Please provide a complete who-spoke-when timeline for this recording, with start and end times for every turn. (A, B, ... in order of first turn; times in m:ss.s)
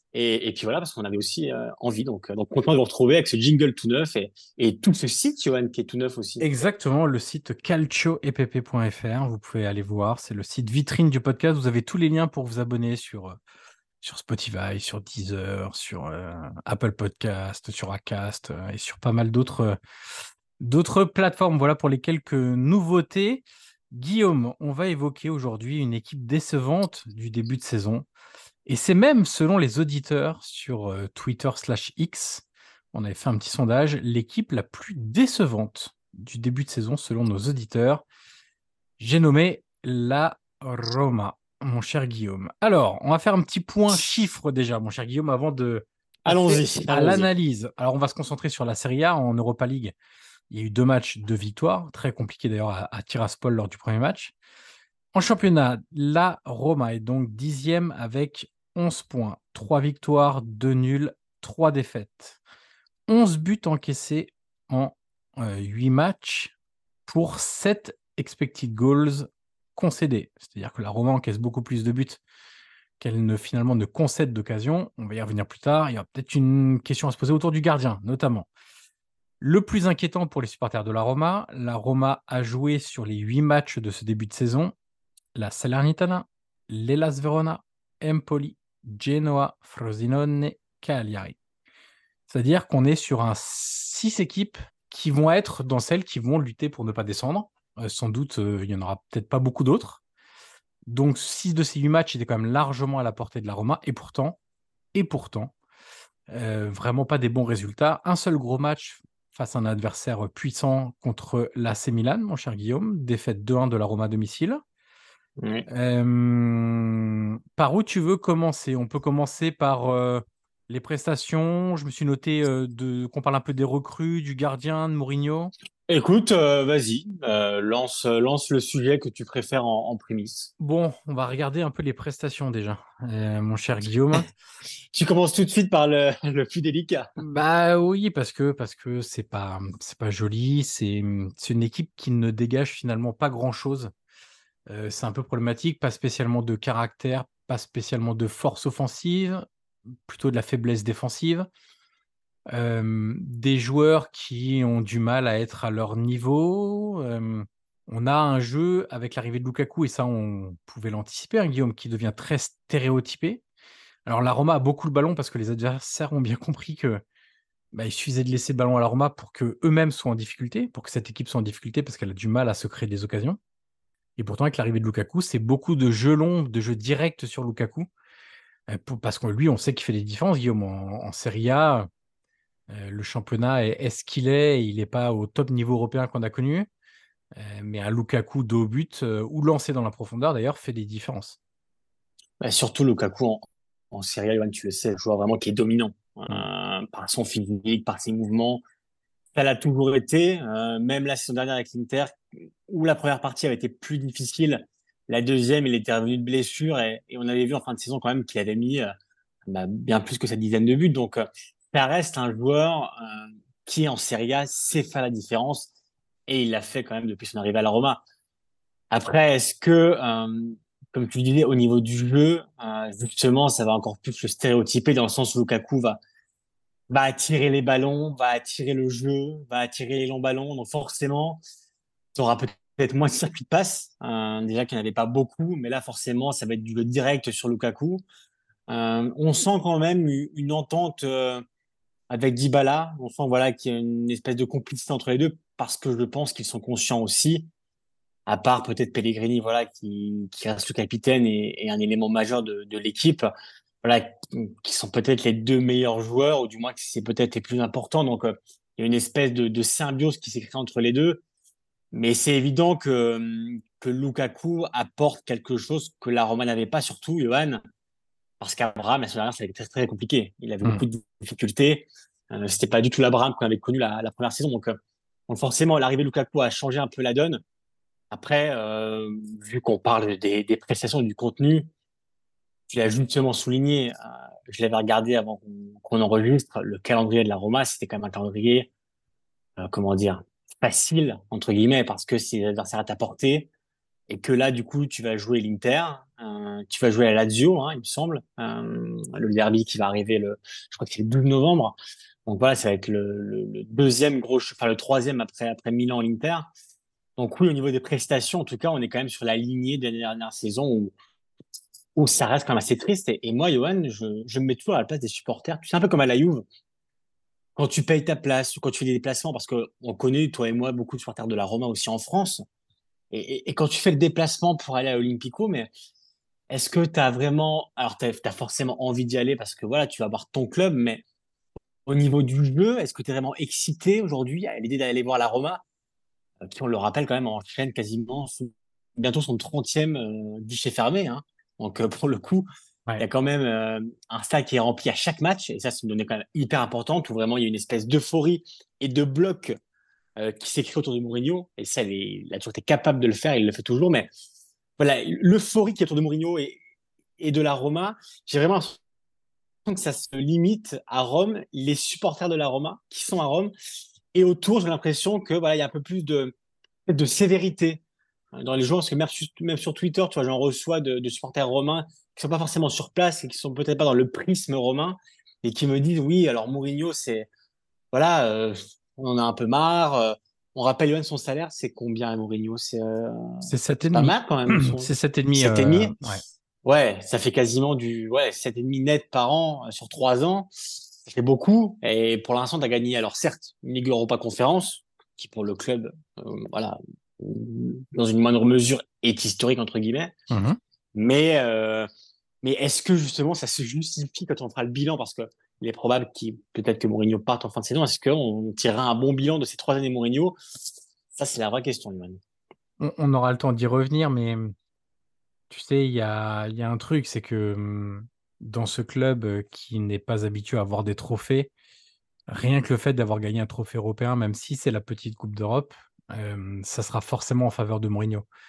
0:00.1-0:06.4 A
0:06.4-0:13.4 B
0:14.0-0:19.8 B
0:20.6-0:28.1 B
0:28.7-0:38.0 B
0:39.0-0:49.9 B
0:46.3-0:47.3 A
0:50.5-0:54.3 B
0:55.1-1:02.4 B
1:03.1-1:06.5 B
1:07.1-1:12.2 B
1:13.0-1:18.5 B
1:19.4-1:24.8 B
1:25.4-1:31.4 B
1:32.3-1:40.0 B
1:40.9-1:44.4 B
1:44.9-1:45.5 B
1:46.3-1:54.6 B
1:55.4-1:55.7 A
1:55.7-2:05.5 B
2:05.9-2:10.5 A
2:10.6-2:14.3 B
2:14.9-2:17.1 A
2:17.2-2:23.9 B
2:24.7-2:29.4 B
2:30.0-2:31.5 B
2:32.5-2:43.4 B
2:44.1-2:47.0 B
2:47.7-2:53.4 B
2:54.2-2:57.9 B
2:58.7-3:01.9 B
3:02.7-3:06.7 B
3:07.4-3:11.4 B
3:12.4-3:18.6 A
3:19.4-3:28.9 A
3:29.5-3:35.7 A
3:36.3-3:38.0 A
3:38.9-3:46.0 A
3:46.9-3:51.4 A
3:52.2-3:58.0 A
3:58.7-4:01.4 A
4:02.1-4:07.5 A
4:08.3-4:13.3 A
4:13.8-4:21.2 A
4:21.9-4:27.6 A
4:28.4-4:37.4 A
4:38.1-4:41.7 A
4:42.7-4:48.7 A
4:49.6-4:53.5 A
4:54.1-5:06.5 A
5:07.2-5:11.0 A
5:12.0-5:16.4 A
5:17.6-5:22.4 A
5:23.1-5:25.7 A
5:26.5-5:31.0 A
5:31.9-5:35.6 A
5:36.4-5:42.5 A
5:43.0-5:49.6 A
5:50.2-5:54.1 A
5:54.8-5:56.6 A
5:57.2-5:58.8 A
5:59.7-6:03.5 A
6:04.1-6:06.3 A
6:06.9-6:07.8 A
6:08.3-6:17.3 A
6:17.9-6:26.0 A
6:23.5-6:26.2 B
6:26.6-6:40.2 A
6:40.3-6:40.6 B
6:41.0-6:41.9 A
6:42.4-6:50.4 A
6:51.2-6:52.2 A
6:52.8-6:54.5 B
6:55.5-7:01.5 B
7:02.3-7:08.3 B